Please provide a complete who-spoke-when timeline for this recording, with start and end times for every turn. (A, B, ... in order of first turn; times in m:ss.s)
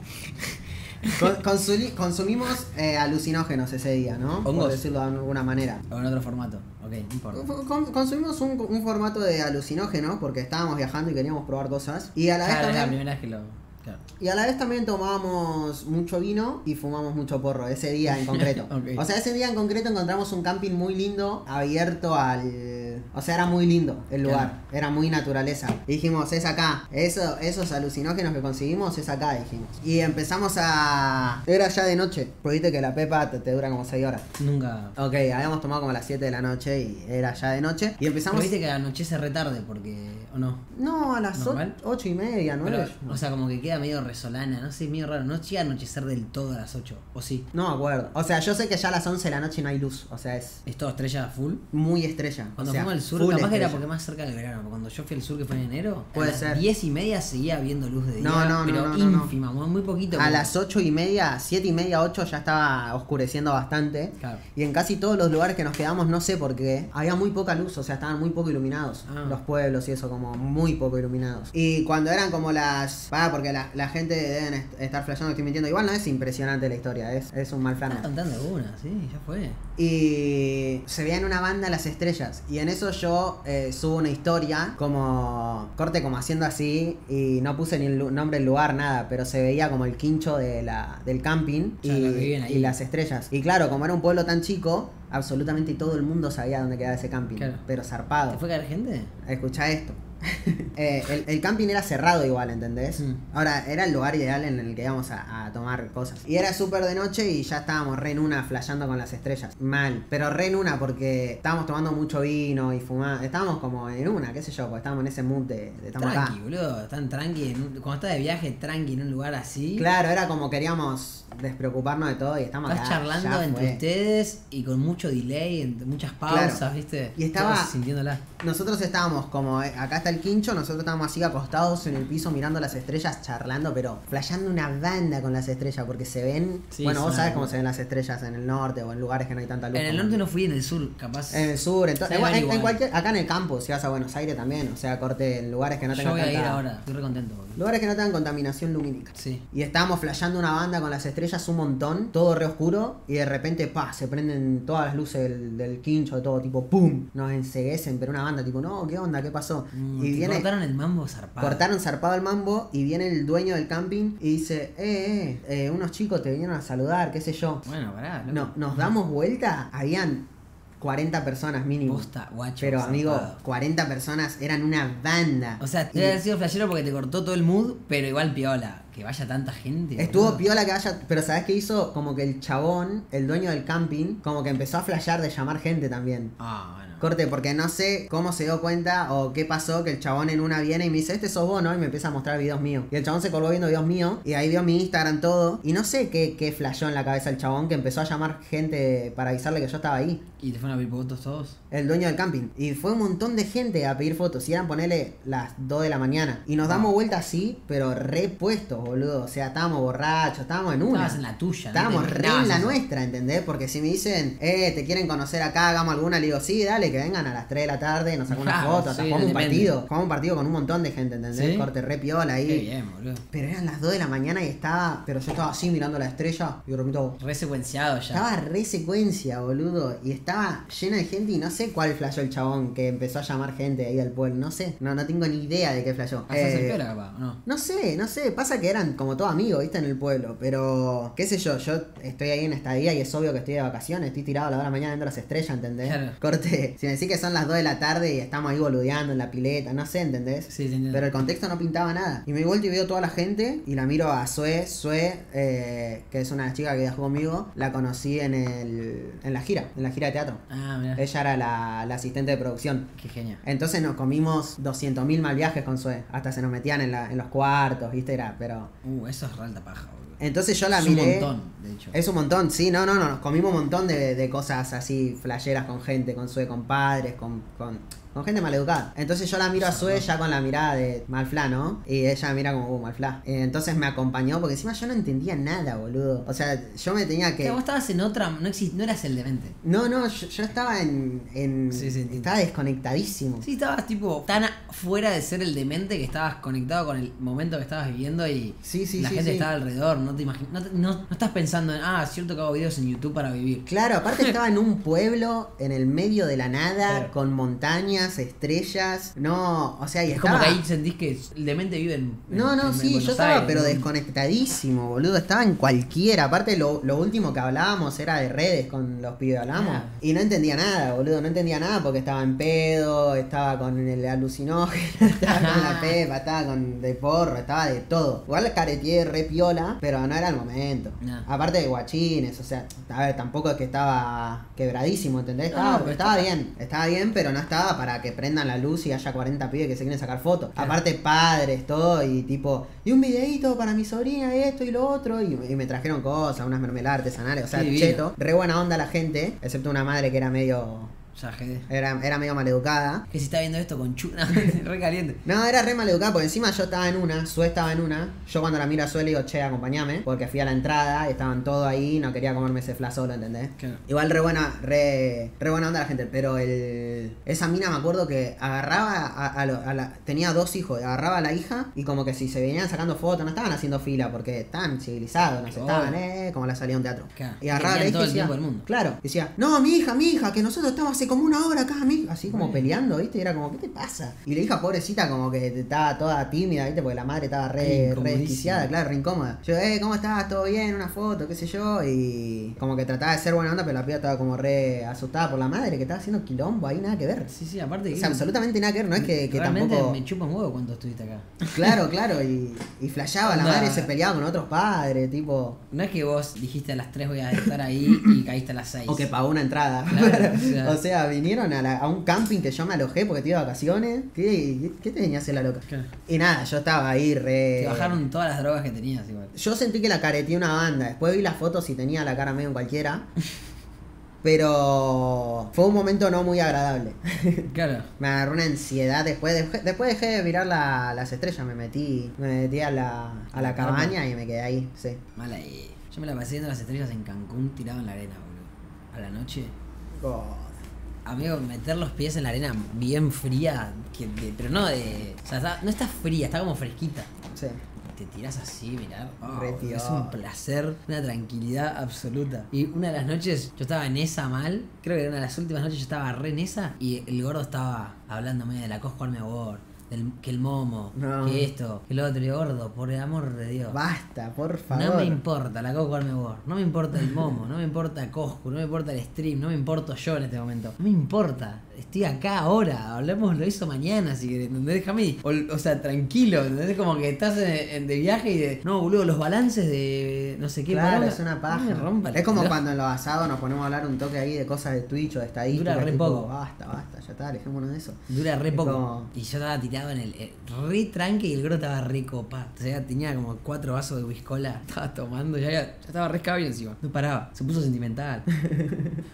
0:00.4-0:01.3 A
0:01.2-0:05.8 B
0:04.4-0:04.8 A
0:05.9-0:07.5 A
0:07.3-0:13.0 B
0:12.4-0:14.0 A
0:14.2-0:34.2 B
0:18.1-0:19.0 A
0:24.2-0:24.5 A
0:34.4-0:35.0 A
0:35.0-0:38.5 B
0:38.3-0:40.6 A
0:40.7-0:43.2 B
0:41.3-0:41.8 A
0:42.6-0:47.4 A
0:47.5-0:50.6 B
0:50.6-0:51.6 A
0:51.7-0:53.8 B
0:52.6-1:00.5 A
0:56.1-0:56.6 B
0:58.2-0:59.3 B
1:00.1-1:18.1 B
1:09.0-1:09.4 A
1:17.9-1:19.6 A
1:19.8-1:38.4 B
1:31.8-1:32.8 A
1:37.4-1:37.6 A
1:38.3-1:39.1 A
1:39.2-1:56.4 B
1:55.9-1:59.9 A
1:59.8-2:03.8 B
2:02.6-2:08.3 A
2:06.3-2:06.6 B
2:07.2-2:07.7 B
2:08.4-2:20.2 B
2:16.7-2:17.6 A
2:19.7-2:21.5 A
2:21.3-2:26.6 B
2:22.0-2:22.8 A
2:25.8-2:27.6 A
2:27.6-2:40.5 B
2:29.1-2:29.4 A
2:39.7-2:41.6 A
2:41.4-2:47.6 B
2:47.6-2:48.9 A
2:48.3-2:50.2 B
2:50.8-2:52.1 B
2:51.8-2:53.4 A
2:52.6-2:56.2 B
2:55.6-3:00.4 A
3:00.0-3:06.3 B
3:06.4-3:07.1 A
3:07.0-3:20.2 B
3:20.4-3:21.6 A
3:21.7-3:31.2 B
3:26.6-3:26.9 A
3:30.9-3:32.8 A
3:31.7-3:42.7 B
3:38.3-3:39.8 A
3:41.3-3:41.7 A
3:42.4-3:43.2 A
3:43.3-3:47.2 B
3:47.2-3:48.2 A
3:48.1-3:56.8 B
3:56.3-3:57.4 A
3:57.4-4:20.4 B
4:05.8-4:06.2 A
4:10.5-4:11.1 A
4:20.5-4:21.0 A
4:21.0-4:22.9 B
4:22.9-4:23.4 A
4:23.4-4:28.7 B
4:28.8-4:30.2 A
4:30.2-4:31.3 B
4:30.7-4:32.0 A
4:31.9-4:47.6 B
4:39.5-4:40.1 A
4:47.4-4:49.6 A
4:49.6-4:53.4 B
4:51.7-4:52.3 A
4:53.4-5:04.3 A
4:58.6-4:59.5 B
5:03.7-5:10.6 B
5:06.8-5:07.1 A
5:10.1-5:13.9 A
5:12.3-5:50.9 B
5:19.5-5:20.0 A
5:25.2-5:26.0 A
5:31.0-5:31.3 A
5:35.5-5:36.3 A
5:40.6-5:40.8 A
5:47.5-5:48.1 A
5:51.1-5:51.7 A
5:51.7-5:53.0 B
5:53.1-5:55.2 A
5:55.2-6:37.3 B
6:15.4-6:16.0 A
6:17.1-6:18.6 A
6:22.2-6:22.7 A
6:27.6-6:28.7 A
6:37.2-6:38.3 A
6:37.9-6:40.0 B
6:39.0-6:41.7 A
6:41.5-6:45.6 B
6:43.2-6:43.9 A
6:45.7-6:49.1 A
6:47.9-6:48.2 B
6:48.9-6:58.0 B
6:49.9-6:50.8 A
6:57.6-6:59.3 A
6:59.3-7:03.0 B
7:04.2-7:07.5 B
7:07.5-7:07.9 A
7:08.0-7:15.0 B
7:13.3-7:14.0 A
7:15.2-7:19.5 A
7:20.0-7:20.6 B
7:21.0-7:27.1 A
7:27.3-7:27.6 B
7:27.9-7:43.8 A
7:29.2-7:30.2 B
7:40.9-7:41.5 B
7:43.7-7:45.2 B
7:44.7-8:02.6 A
8:00.7-8:08.0 B
8:05.5-8:06.3 A
8:08.1-8:18.2 A
8:08.5-8:09.1 B
8:18.3-8:19.0 B